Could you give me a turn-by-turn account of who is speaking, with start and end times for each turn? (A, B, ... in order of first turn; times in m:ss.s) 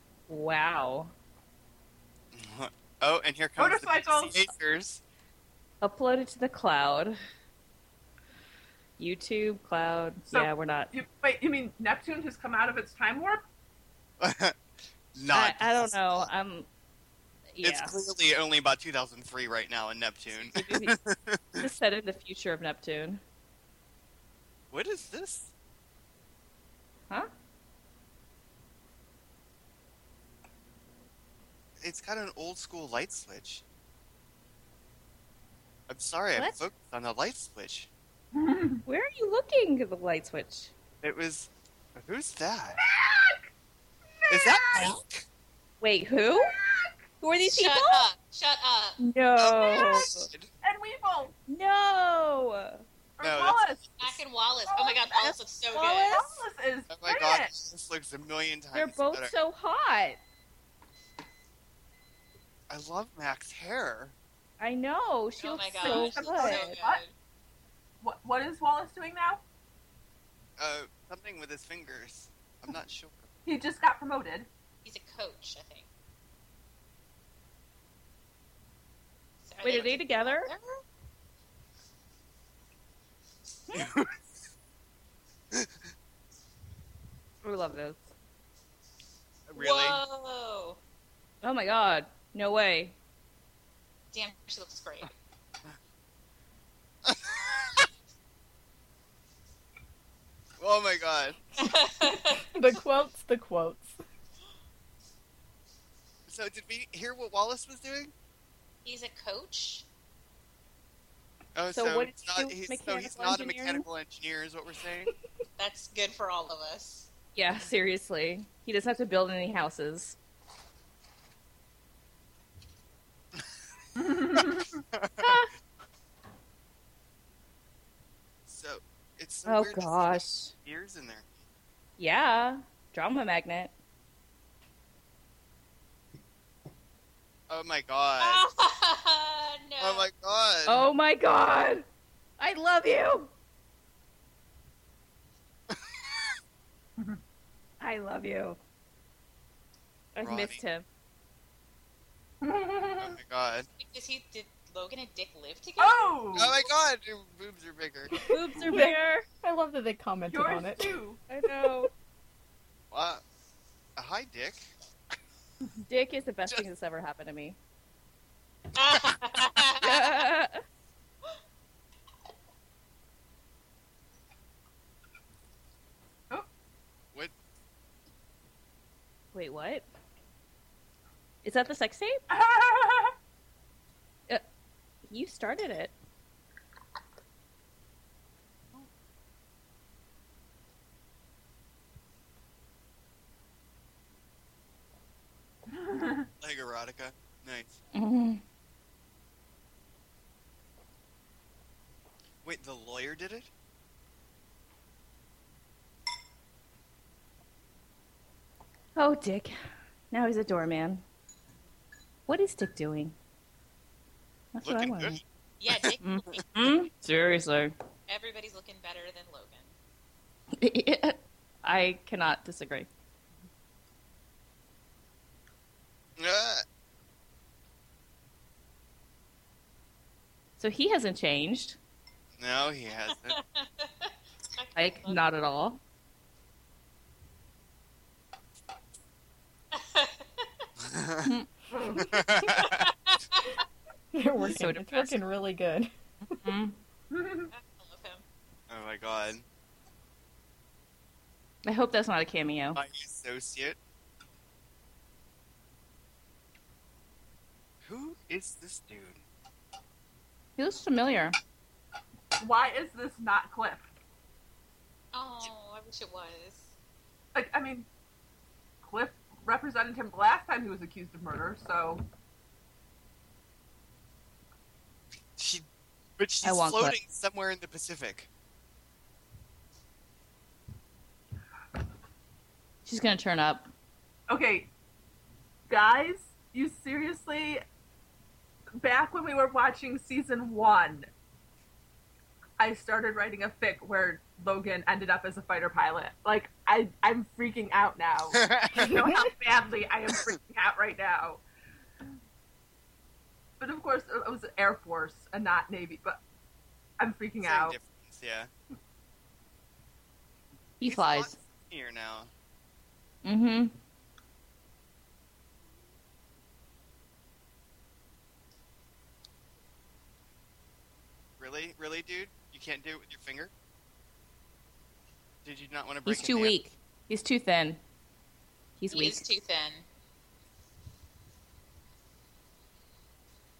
0:00.3-0:01.1 A
0:02.3-0:05.0 B
0:03.6-0:04.4 C
0:05.8-0:07.2 A
0:09.0-0:10.9 A
0:10.3-0:13.4 C
0:14.2-0:16.3 B
0:15.2-0:16.7 A
0:17.5-0:18.0 A
0:17.6-0:21.6 B
0:20.3-0:21.0 A
0:21.6-0:23.2 A
0:24.7-0:25.5 B
0:31.8-0:33.6 B
0:35.9-0:37.9 B
0:36.3-0:36.7 A
0:38.3-0:38.8 C
0:38.8-0:40.7 A
0:41.0-0:42.8 B
0:42.8-0:43.5 C
0:44.1-0:45.0 C
0:44.3-0:45.2 B
0:45.8-0:46.6 A
0:46.3-0:47.1 C
0:47.2-0:48.0 A
0:47.5-0:49.0 D
0:49.0-0:50.3 A
0:49.4-0:50.5 B
0:50.6-0:51.3 C
0:51.5-0:52.8 A
0:53.2-0:53.8 C
0:53.2-0:54.1 B
0:54.0-0:56.2 D
0:54.7-0:57.5 C
0:55.8-0:56.4 A
0:56.9-0:59.3 B
0:58.7-1:00.2 A
1:02.7-1:04.1 B
1:04.6-1:06.7 A
1:05.4-1:07.1 D
1:05.8-1:07.0 C
1:08.0-1:09.4 C
1:10.6-1:13.3 B
1:13.4-1:14.5 C
1:14.8-1:15.9 D
1:19.4-1:20.8 D
1:19.6-1:20.5 A
1:23.7-1:24.1 B
1:27.4-1:28.0 A
1:29.5-1:30.0 B
1:29.5-1:30.8 D
1:31.4-1:33.0 A
1:34.1-1:35.1 D
1:37.0-1:37.9 B
1:40.6-1:41.4 B
1:41.6-1:42.4 D
1:42.4-1:44.0 E
1:46.3-1:48.1 B
1:48.8-1:49.8 D
1:51.5-1:55.1 B
1:51.7-1:53.8 A
1:55.6-1:57.1 D
1:57.3-2:00.2 A
2:04.0-2:04.8 C
2:04.9-2:05.4 B
2:08.4-2:11.2 B
2:09.4-2:10.5 A
2:12.0-2:13.7 A
2:17.5-2:18.4 B
2:18.2-2:20.1 D
2:19.8-2:20.8 B
2:20.7-2:21.8 A
2:22.4-2:23.3 A
2:25.7-2:26.4 B
2:27.8-2:28.6 A
2:30.1-2:30.8 A
2:30.2-2:30.6 B
2:32.4-2:33.2 C
2:33.0-2:33.7 B
2:33.8-2:36.1 D
2:35.8-2:36.6 C
2:36.3-2:38.1 B
2:38.3-2:39.2 A
2:38.7-2:41.0 E
2:40.3-2:41.2 C
2:41.3-2:41.9 A
2:42.9-2:43.2 B
2:44.0-2:44.7 B
2:45.9-2:47.6 A
2:48.7-2:50.2 D
2:49.8-2:50.6 A
2:59.3-2:59.8 A
3:01.4-3:02.2 A
3:02.3-3:03.1 C
3:05.1-3:05.9 A
3:15.7-3:16.3 C
3:16.4-3:17.8 B
3:17.9-3:18.4 A
3:22.4-3:23.5 B
3:29.0-3:29.6 A
3:30.1-3:31.0 A
3:32.3-3:33.1 A
3:34.5-3:35.2 A
3:34.6-3:35.2 B
3:35.6-3:36.4 D
3:36.0-3:37.7 A
3:38.1-3:39.7 D
3:40.6-3:42.9 A
3:46.2-3:46.6 B
3:50.6-3:51.8 A
3:52.4-3:53.4 B
3:53.1-3:55.2 D
3:54.8-3:55.8 A
3:59.7-4:00.5 D
4:00.8-4:01.3 B
4:01.7-4:02.2 C
4:01.9-4:02.9 B
4:02.5-4:03.5 D
4:04.1-4:05.9 E
4:04.4-4:05.2 A
4:06.2-4:06.8 A
4:07.1-4:07.5 C
4:07.5-4:08.2 D
4:08.7-4:09.4 B
4:11.6-4:12.8 A
4:12.7-4:13.8 B
4:17.8-4:19.2 B
4:20.6-4:21.4 A
4:22.4-4:23.9 C
4:25.1-4:26.7 D
4:27.3-4:27.9 C
4:28.8-4:32.0 C
4:35.4-4:35.6 B
4:36.2-4:38.3 B
4:36.4-4:37.0 A
4:42.8-4:43.7 A
4:44.3-4:44.7 C
4:45.7-4:47.6 C
4:48.8-4:51.1 C
4:52.6-5:01.4 C
4:58.3-4:58.9 B
4:58.8-4:59.3 E
5:03.6-5:06.2 C
5:07.0-5:07.8 C
5:07.4-5:08.5 B
5:10.8-5:11.4 A
5:10.8-5:12.3 B
5:13.2-5:13.7 A
5:21.4-5:23.5 B
5:25.4-5:26.5 B
5:26.0-5:27.8 A
5:28.8-5:29.2 A
5:28.9-5:29.8 D